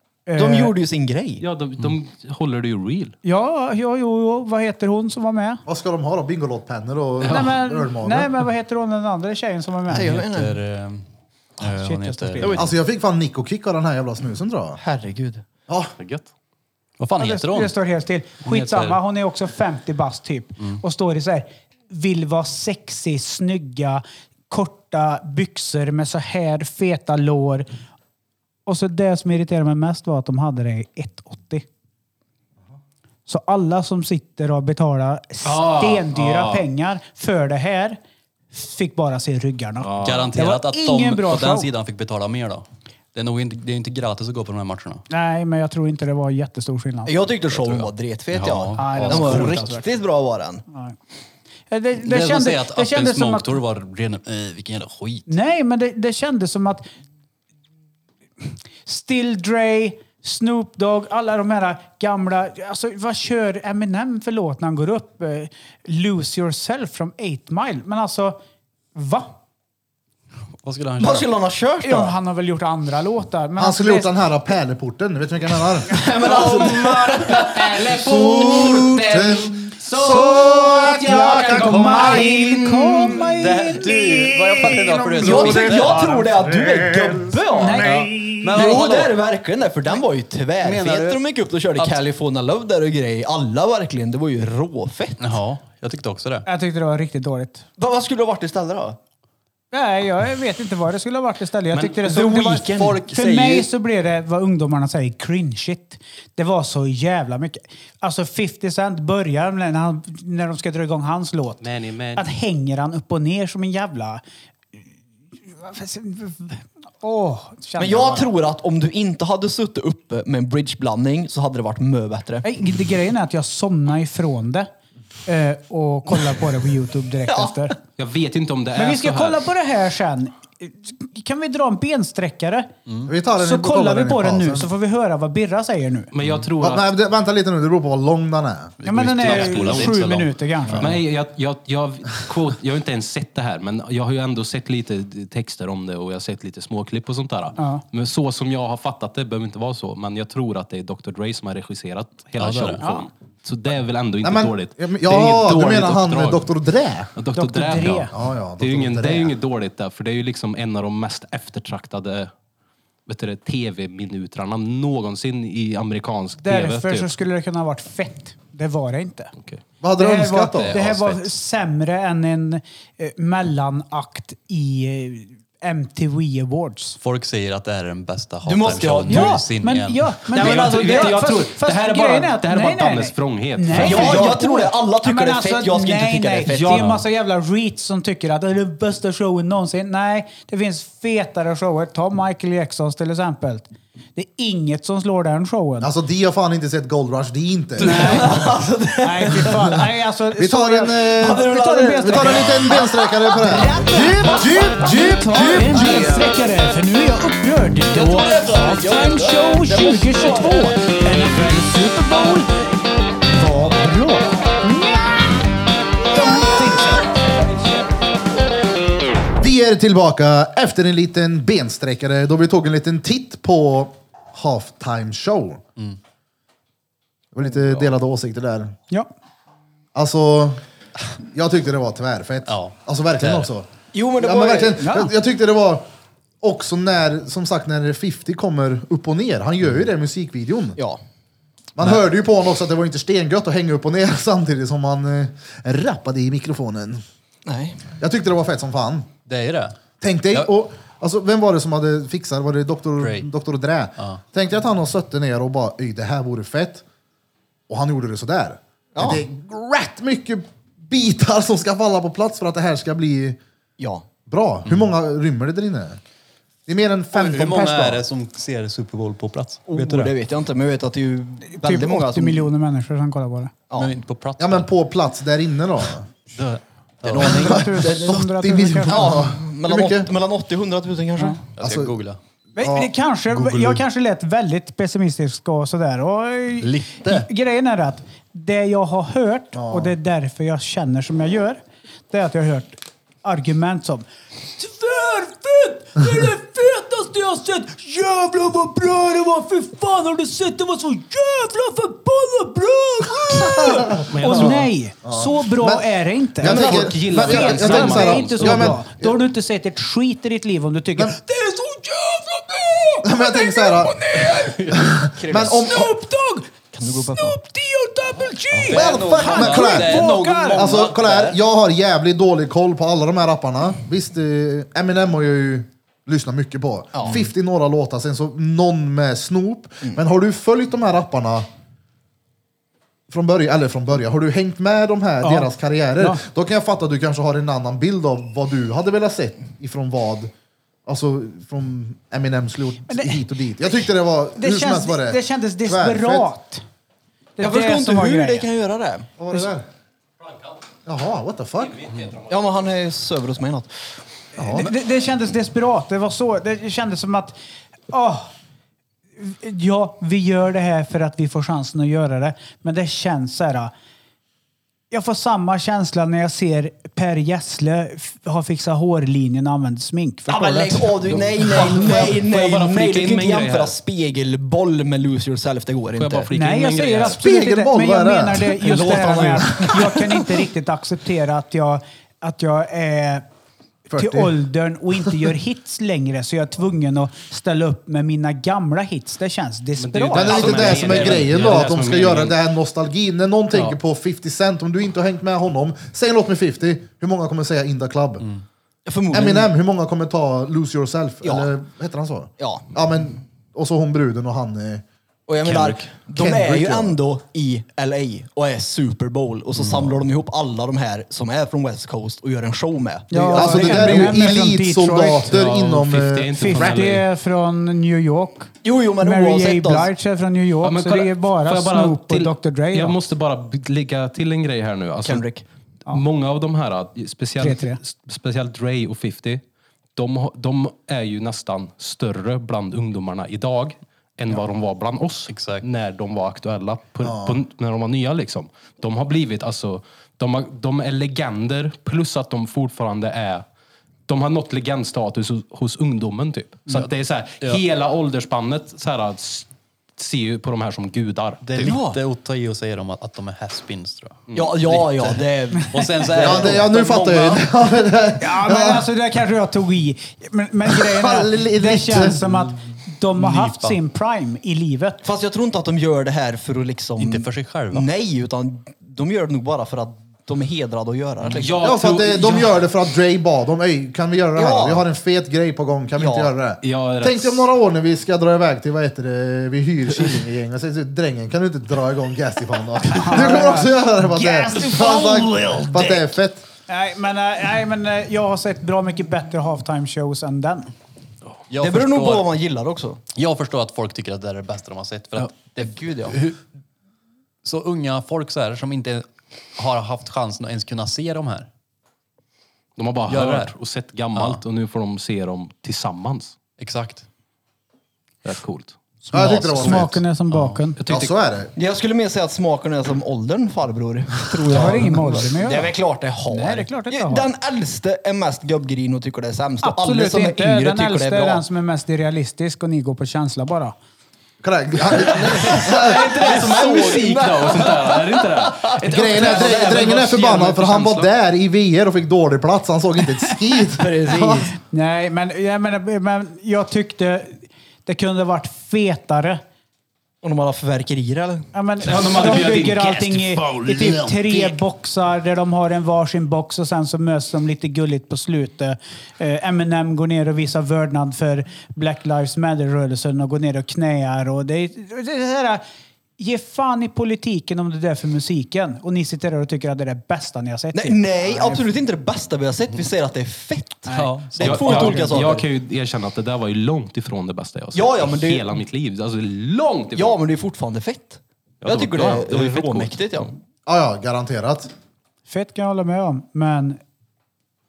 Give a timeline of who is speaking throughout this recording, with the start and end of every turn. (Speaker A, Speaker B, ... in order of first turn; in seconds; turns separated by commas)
Speaker A: 0.3-0.8, Speaker B: 0.3-1.4, Speaker C: 1.4-3.2, Speaker A: 3.2-5.6, Speaker D: 5.7-8.3, Speaker A: 7.2-10.1, Speaker C: 7.2-7.5, Speaker E: 9.9-11.1, Speaker B: 9.9-10.6, Speaker E: 11.6-12.7, Speaker A: 11.6-12.6, Speaker D: 12.5-14.8, Speaker B: 14.8-15.4, Speaker D: 15.7-15.9, Speaker C: 16.0-16.3, Speaker E: 17.0-17.8, Speaker A: 17.2-27.7, Speaker E: 18.4-19.0, Speaker A: 28.7-31.7, Speaker A: 33.3-38.0, Speaker C: 35.4-36.6, Speaker A: 38.5-41.7, Speaker C: 39.8-40.3, Speaker E: 40.0-45.0, Speaker A: 45.1-47.2, Speaker B: 47.1-50.6, Speaker E: 47.5-49.7, Speaker A: 48.8-49.9, Speaker A: 50.7-51.0, Speaker A: 51.7-53.6, Speaker E: 52.0-55.3, Speaker A: 55.3-56.9, Speaker A: 58.4-68.4, Speaker A: 68.9-69.4, Speaker E: 70.6-71.3, Speaker B: 71.0-72.2, Speaker A: 71.8-74.2, Speaker D: 73.6-76.5, Speaker B: 75.9-77.8, Speaker C: 76.3-83.2, Speaker D: 77.9-83.0, Speaker A: 81.0-84.8, Speaker E: 83.3-86.3, Speaker D: 84.6-87.2, Speaker B: 85.2-88.0, Speaker A: 87.5-88.5, Speaker E: 87.8-89.2, Speaker B: 88.5-95.3, Speaker E: 90.6-92.0, Speaker E: 95.2-96.5, Speaker A: 96.5-97.7, Speaker B: 97.8-99.0, Speaker A: 99.7-114.2, Speaker B: 101.8-103.0, Speaker E: 102.2-103.7, Speaker C: 111.6-112.2, Speaker A: 115.4-118.3, Speaker B: 117.8-122.5, Speaker A: 122.4-124.7, Speaker A: 125.3-127.8, Speaker B: 127.3-127.7, Speaker C: 128.0-129.4, Speaker A: 128.8-132.7, Speaker E: 132.9-133.1, Speaker D: 133.1-134.7, Speaker A: 133.4-136.1, Speaker C: 136.1-136.9, Speaker E: 136.2-136.5, Speaker D: 136.6-138.8, Speaker E: 138.8-141.0, Speaker A: 138.8-140.9, Speaker C: 139.2-139.9, Speaker C: 140.8-156.5, Speaker A: 147.6-147.8, Speaker E: 152.4-152.8, Speaker A: 152.8-153.1, Speaker D: 154.2-157.1, Speaker C: 157.2-162.3, Speaker A: 157.3-158.1, Speaker D: 158.1-159.4, Speaker C: 163.1-167.2, Speaker A: 166.4-169.3, Speaker C: 169.4-169.6, Speaker D: 169.8-170.8, Speaker A: 170.0-177.0, Speaker C: 170.6-171.3, Speaker E: 177.0-180.7, Speaker B: 178.4-179.5, Speaker A: 179.1-195.9, Speaker C: 180.3-184.3, Speaker B: 180.4-181.0, Speaker E: 183.7-184.3, Speaker B: 183.8-186.9, Speaker E: 186.6-187.1, Speaker D: 195.8-198.4, Speaker A: 197.8-202.7, Speaker B: 197.8-199.8, Speaker D: 200.4-206.3, Speaker B: 201.2-203.8, Speaker A: 203.5-212.5, Speaker B: 207.9-210.6, Speaker A: 213.3-215.2, Speaker A: 216.1-217.1, Speaker B: 217.3-217.6, Speaker D: 219.4-225.6, Speaker D: 227.3-228.8, Speaker D: 229.9-230.6, Speaker D: 231.3-235.8, Speaker E: 232.5-233.5, Speaker B: 233.9-234.9, Speaker A: 234.8-235.1, Speaker D: 236.4-240.8, Speaker D: 241.8-247.0, Speaker B: 247.5-247.8, Speaker D: 248.0-249.1, Speaker E: 249.3-249.8, Speaker D: 250.0-256.8, Speaker E: 253.0-253.3, Speaker D: 257.7-263.4, Speaker B: 258.9-259.2, Speaker B: 263.8-264.1, Speaker D: 264.3-266.0, Speaker D: 266.7-268.1, Speaker E: 267.1-270.1, Speaker B: 269.7-272.5, Speaker A: 271.4-273.5, Speaker E: 273.8-274.7, Speaker D: 274.4-276.1, Speaker E: 276.4-277.7, Speaker B: 277.1-278.1, Speaker A: 277.2-279.1, Speaker D: 277.2-280.1, Speaker B: 278.9-281.4, Speaker E: 281.5-282.2, Speaker D: 281.6-281.9, Speaker A: 282.6-314.9, Speaker D: 282.6-283.8, Speaker E: 286.6-287.3, Speaker D: 289.5-289.9, Speaker D: 303.3-309.2, Speaker C: 304.1-304.7, Speaker C: 306.4-308.8, Speaker D: 313.0-315.9, Speaker B: 315.1-315.7, Speaker A: 315.4-320.8, Speaker B: 316.7-317.4, Speaker E: 318.6-321.3, Speaker D: 318.7-331.5, Speaker B: 320.8-321.3, Speaker B: 326.9-327.3, Speaker D: 333.1-340.3, Speaker A: 335.2-336.2, Speaker D: 340.9-346.3, Speaker A: 342.9-343.2, Speaker A: 344.4-346.6, Speaker A: 347.4-348.5, Speaker B: 347.4-349.1, Speaker D: 349.2-349.7, Speaker D: 350.9-351.9, Speaker B: 352.3-353.7, Speaker D: 354.4-354.7, Speaker A: 354.4-357.4, Speaker A: 357.9-358.3, Speaker A: 359.2-363.7, Speaker A: 364.9-372.1, Speaker B: 370.3-376.3, Speaker C: 371.1-373.7, Speaker C: 376.0-377.2, Speaker A: 376.3-383.2, Speaker D: 377.2-378.6, Speaker B: 378.6-380.2, Speaker D: 383.9-384.4, Speaker A: 383.9-390.6, Speaker C: 389.8-392.4, Speaker D: 390.1-398.2, Speaker B: 390.3-391.4, Speaker B: 398.9-399.5, Speaker D: 399.1-404.9, Speaker B: 401.2-401.5, Speaker B: 402.4-402.7, Speaker B: 405.3-414.2, Speaker C: 405.4-405.9, Speaker D: 406.1-407.0, Speaker E: 409.6-409.9, Speaker A: 413.1-415.3, Speaker D: 413.4-416.9, Speaker C: 415.3-417.1, Speaker A: 416.4-423.0, Speaker B: 418.6-419.9, Speaker C: 420.6-425.2, Speaker B: 425.0-425.4, Speaker C: 425.9-429.4, Speaker A: 427.4-427.8, Speaker C: 430.0-443.4, Speaker E: 435.3-435.7, Speaker D: 437.0-437.4, Speaker C: 444.1-451.4, Speaker E: 451.4-457.4, Speaker B: 451.6-452.0, Speaker B: 454.3-457.3, Speaker D: 456.2-458.9, Speaker A: 458.2-465.0, Speaker D: 460.7-462.2, Speaker E: 462.3-462.5, Speaker E: 463.1-463.8, Speaker B: 465.0-471.6, Speaker E: 467.0-467.9, Speaker C: 471.4-472.5, Speaker D: 471.6-486.5, Speaker B: 474.4-474.9, Speaker B: 476.0-476.3, Speaker C: 476.6-477.5, Speaker A: 482.9-485.8, Speaker A: 486.7-490.7, Speaker E: 491.5-492.3, Speaker B: 491.6-493.0, Speaker E: 493.1-496.4, Speaker B: 495.6-496.2, Speaker E: 497.4-501.5, Speaker C: 502.8-506.4, Speaker E: 503.1-503.5, Speaker E: 504.1-504.4, Speaker E: 506.6-507.1, Speaker C: 508.2-508.8, Speaker A: 509.0-510.8, Speaker D: 509.1-510.0, Speaker E: 510.3-510.6, Speaker C: 510.8-511.1, Speaker D: 510.9-511.5, Speaker B: 511.6-521.4, Speaker A: 514.5-515.7, Speaker A: 516.3-517.3, Speaker A: 519.6-523.8, Speaker D: 524.4-526.4, Speaker B: 524.9-529.9, Speaker C: 525.1-531.1, Speaker D: 528.8-534.5, Speaker B: 533.8-534.5, Speaker A: 534.7-539.4, Speaker B: 540.2-541.5, Speaker A: 541.5-555.6, Speaker C: 541.8-544.3, Speaker A: 556.2-561.7, Speaker B: 560.7-565.5, Speaker A: 563.9-565.2, Speaker E: 563.9-565.2, Speaker C: 564.4-570.2, Speaker B: 567.7-568.6, Speaker B: 570.0-573.4, Speaker C: 571.6-573.0, Speaker D: 573.7-574.7, Speaker A: 575.3-576.8